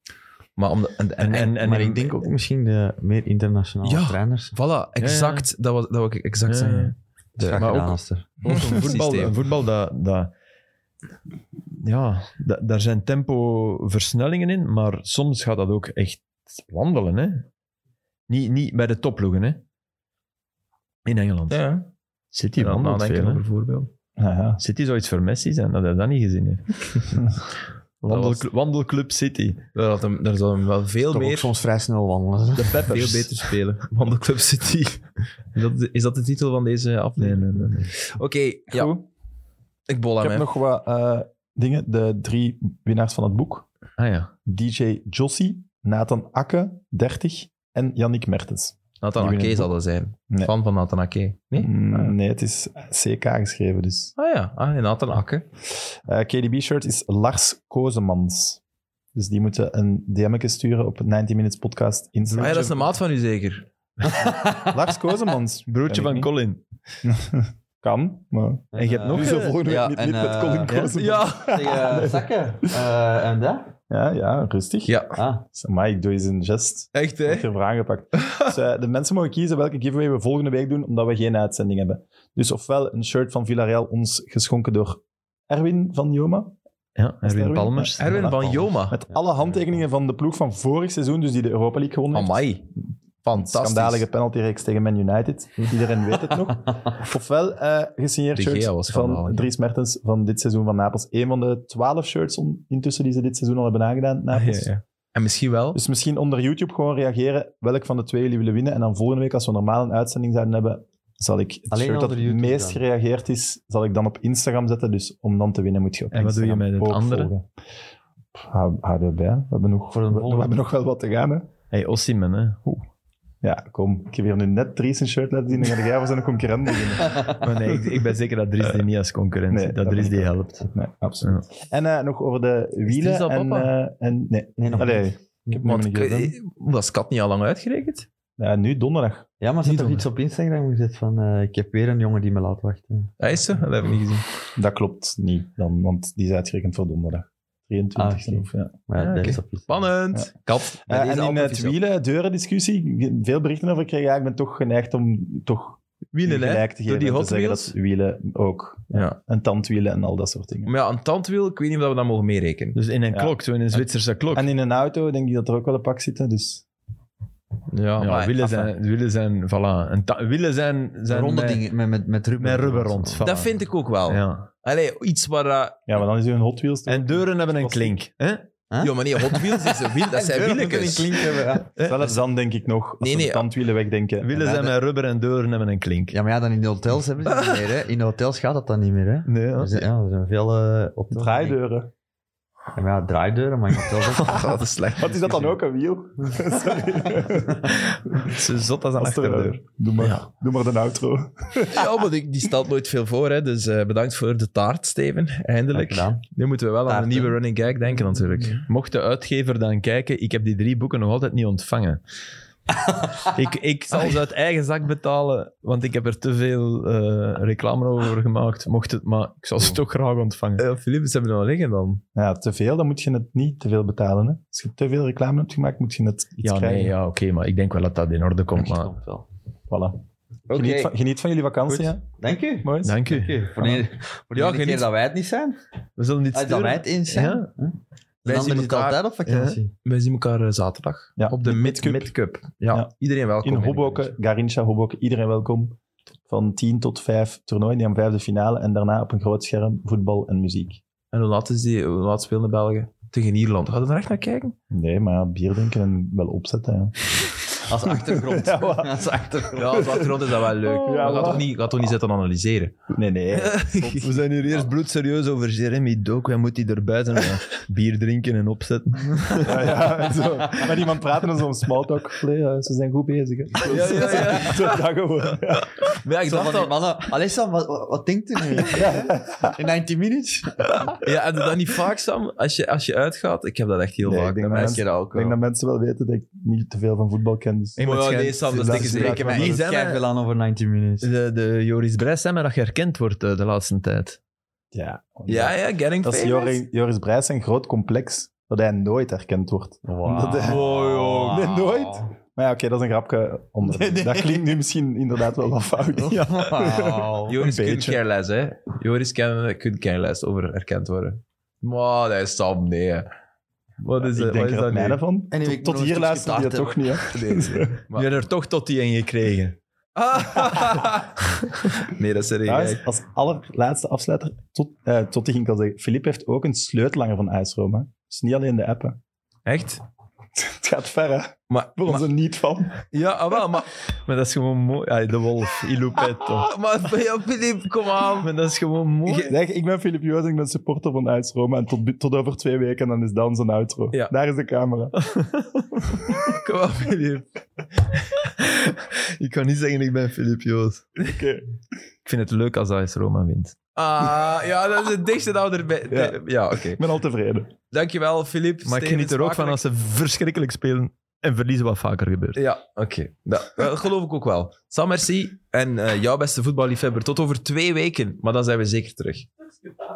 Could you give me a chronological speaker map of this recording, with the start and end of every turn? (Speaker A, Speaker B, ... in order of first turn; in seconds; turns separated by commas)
Speaker A: 0.6-1.6, Speaker B: 1.2-2.3, Speaker C: 1.6-4.5, Speaker A: 3.8-7.9, Speaker B: 5.0-5.5, Speaker B: 6.5-6.9, Speaker C: 7.4-8.3, Speaker B: 7.5-10.3, Speaker A: 8.4-9.4, Speaker B: 11.7-17.5, Speaker B: 18.3-19.6, Speaker B: 21.1-21.6, Speaker A: 21.5-21.9, Speaker B: 22.3-23.4, Speaker A: 22.6-23.9, Speaker D: 24.2-24.6, Speaker B: 24.6-27.2, Speaker B: 28.0-29.6, Speaker A: 28.1-28.5, Speaker A: 29.7-31.5, Speaker C: 31.1-33.0, Speaker B: 32.6-33.4, Speaker A: 32.8-38.9, Speaker B: 37.2-37.9, Speaker D: 38.7-39.1, Speaker A: 39.9-40.5, Speaker D: 40.2-43.7, Speaker B: 44.0-44.3, Speaker D: 44.5-49.7, Speaker A: 49.0-52.1, Speaker D: 51.6-54.1, Speaker A: 54.2-55.4, Speaker D: 56.0-58.6, Speaker D: 59.1-62.9, Speaker A: 62.4-63.7, Speaker C: 64.0-64.8, Speaker D: 64.7-66.3, Speaker B: 65.7-66.6, Speaker D: 67.0-72.7, Speaker C: 68.7-73.7, Speaker B: 68.8-69.6, Speaker B: 70.7-71.0, Speaker A: 70.9-71.9, Speaker D: 73.9-75.0, Speaker A: 74.9-75.2, Speaker C: 75.2-75.4, Speaker D: 75.5-86.6, Speaker A: 76.9-77.5, Speaker A: 78.1-78.5, Speaker B: 87.0-88.3, Speaker D: 87.2-92.4, Speaker A: 88.0-89.0, Speaker C: 89.1-89.6, Speaker A: 92.1-92.7, Speaker A: 93.2-94.0, Speaker D: 93.4-104.7, Speaker A: 98.3-99.5, Speaker A: 104.3-105.8, Speaker D: 105.7-117.5, Speaker C: 111.7-112.8, Speaker B: 116.1-117.3, Speaker D: 118.3-121.5, Speaker C: 119.9-120.6, Speaker B: 121.7-122.8, Speaker D: 123.4-128.0, Speaker C: 127.0-127.4, Speaker B: 127.3-131.4, Speaker D: 129.5-136.3, Speaker A: 132.9-133.7, Speaker C: 134.6-135.7, Speaker A: 135.7-138.1, Speaker D: 138.4-139.3, Speaker C: 139.4-143.1, Speaker A: 139.6-140.1, Speaker A: 143.2-144.3, Speaker D: 144.6-148.7, Speaker C: 148.0-149.7, Speaker A: 149.0-151.8, Speaker D: 150.9-160.7, Speaker A: 156.1-157.7, Speaker A: 160.7-162.8, Speaker B: 162.8-164.5, Speaker D: 164.3-166.7, Speaker A: 167.7-168.7, Speaker B: 168.0-171.7, Speaker C: 171.1-173.2, Speaker B: 172.4-173.6, Speaker A: 173.2-175.8, Speaker B: 174.1-174.5, Speaker D: 175.9-178.0, Speaker B: 176.9-178.4, Speaker C: 178.7-181.7, Speaker A: 178.8-181.5, Speaker D: 181.8-184.7, Speaker A: 183.0-183.5, Speaker B: 184.2-186.2, Speaker C: 186.1-191.6, Speaker A: 187.3-187.7, Speaker B: 189.3-189.8, Speaker D: 191.1-191.9, Speaker C: 192.8-194.6, Speaker A: 194.1-195.6, Speaker D: 195.0-197.7, Speaker C: 196.7-197.7, Speaker B: 197.8-199.6, Speaker D: 199.0-201.9, Speaker A: 201.7-208.7, Speaker C: 205.7-206.2, Speaker C: 206.9-207.4, Speaker B: 208.7-212.0, Speaker C: 212.9-213.2, Speaker B: 213.3-220.6, Speaker A: 220.6-222.0, Speaker D: 222.2-226.9, Speaker B: 226.4-228.9, Speaker C: 228.6-229.3, Speaker D: 229.7-232.1, Speaker A: 230.5-230.9, Speaker C: 231.7-235.6, Speaker D: 232.6-233.0, Speaker B: 232.8-233.4, Speaker D: 233.6-233.8, Speaker A: 234.3-234.9, Speaker B: 236.0-237.5, Speaker C: 236.3-239.7, Speaker A: 238.2-239.0, Speaker B: 239.3-239.6, Speaker A: 239.8-244.1, Speaker D: 241.2-242.1, Speaker D: 243.4-250.8, Speaker A: 251.1-254.5, Speaker D: 254.7-257.1, Speaker C: 257.6-260.1, Speaker D: 257.9-259.1, Speaker A: 259.5-264.0, Speaker D: 259.8-260.1, Speaker D: 260.6-261.5, Speaker B: 260.9-261.4, Speaker D: 262.9-264.6, Speaker B: 264.0-270.7, Speaker D: 269.4-275.9, Speaker A: 273.6-276.9, Speaker C: 273.7-274.6, Speaker C: 276.2-281.0, Speaker D: 278.6-279.6, Speaker A: 281.0-284.8, Speaker D: 284.0-287.8, Speaker C: 284.4-285.4, Speaker B: 287.8-290.0, Speaker A: 287.8-289.5, Speaker D: 288.5-289.6, Speaker C: 288.8-291.1, Speaker B: 291.0-294.2, Speaker D: 294.7-300.6, Speaker A: 295.3-296.6, Speaker C: 299.9-302.1, Speaker A: 300.4-301.7, Speaker D: 301.3-308.0, Speaker C: 303.6-304.5, Speaker C: 306.0-307.4, Speaker A: 307.3-313.1, Speaker A: 313.8-315.0, Speaker D: 314.0-317.8, Speaker C: 315.3-317.0, Speaker A: 317.1-318.1, Speaker B: 317.9-319.6, Speaker A: 320.0-322.8, Speaker D: 322.4-329.0, Speaker A: 329.5-329.8, Speaker D: 330.4-332.8, Speaker A: 331.5-332.0, Speaker A: 332.9-333.7, Speaker B: 334.1-336.5, Speaker A: 336.3-338.3, Speaker B: 338.2-339.3, Speaker D: 339.1-344.9, Speaker B: 345.0-345.8, Speaker A: 346.1-347.3, Speaker A: 347.8-348.2, Speaker B: 348.4-350.9, Speaker D: 351.0-351.5, Speaker B: 352.1-353.6, Speaker A: 353.8-356.8, Speaker D: 355.9-357.5, Speaker A: 357.7-359.6, Speaker B: 358.6-362.4, Speaker A: 362.4-369.3